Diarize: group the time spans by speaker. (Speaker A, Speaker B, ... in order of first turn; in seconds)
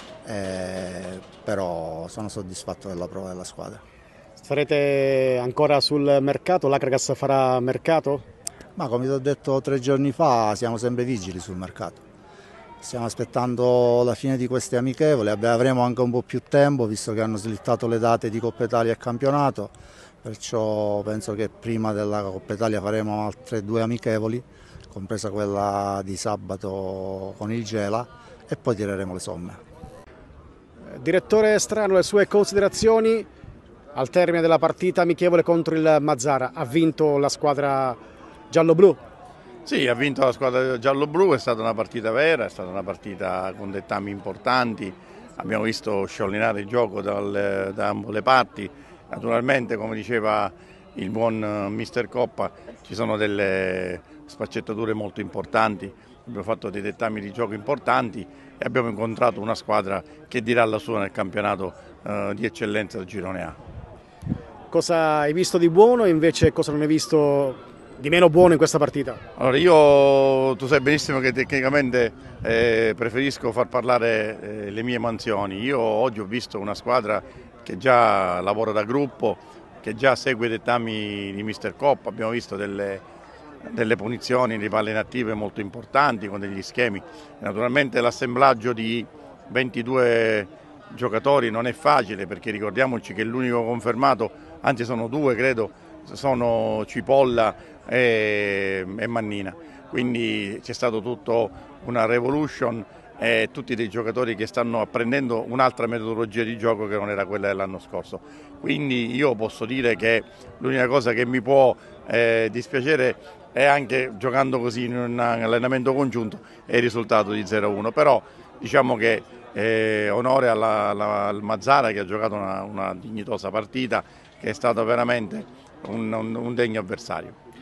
Speaker A: 0.2-3.8, 8.8-12.0, 12.8-29.6
Speaker B: 4.4-8.2, 30.9-33.3, 33.9-38.0, 38.5-39.0, 64.7-69.2
Speaker C: 39.6-63.5, 69.4-83.0, 83.6-127.3